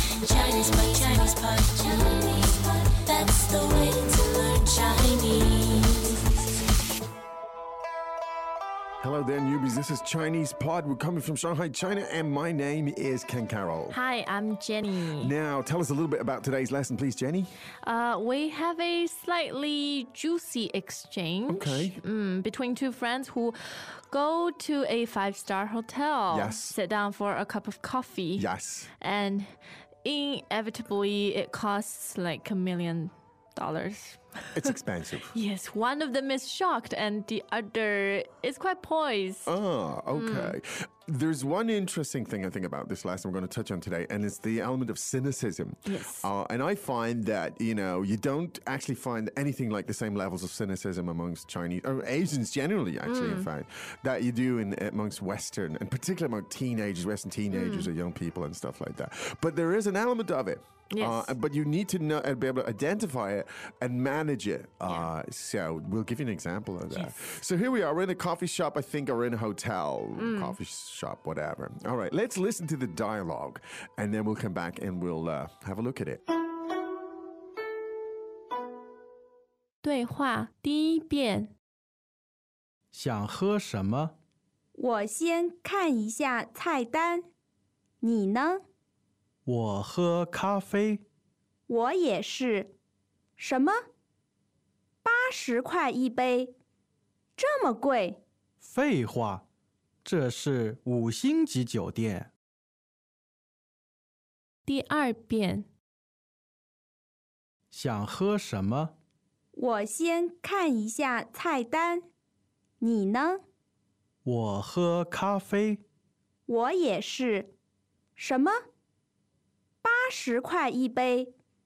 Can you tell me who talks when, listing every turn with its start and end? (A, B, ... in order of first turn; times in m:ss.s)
0:00.2-0:06.1 A
0:09.0-0:14.0 B
0:13.9-0:15.3 C
0:15.2-0:17.6 B
0:17.8-0:28.5 C
0:21.5-0:22.0 B
0:26.3-0:26.8 B
0:28.4-0:28.9 B
0:29.0-0:34.7 C
0:34.5-0:35.3 B
0:35.3-0:39.5 C
0:39.4-1:16.2 B
0:40.1-0:40.6 C
0:45.8-0:46.3 C
0:53.0-0:53.5 C
0:57.5-0:57.9 C
1:00.9-1:01.3 C
1:06.9-1:07.2 C
1:10.2-1:10.6 C
1:19.8-1:21.5 C
1:22.9-1:24.1 D
1:24.8-1:27.2 E
1:28.0-1:28.6 E
1:29.4-1:31.0 D
1:31.7-1:32.7 E
1:33.4-1:33.8 E
1:35.0-1:36.5 E
1:37.4-1:38.2 E
1:38.6-1:39.4 D
1:40.0-1:42.3 D
1:44.6-1:45.7 C
1:47.7-1:48.9 D
1:49.5-1:52.0 E
1:52.8-1:53.4 E
1:54.2-1:55.8 D
1:56.5-1:57.5 E
1:58.2-1:58.6 E
1:59.8-2:01.3 E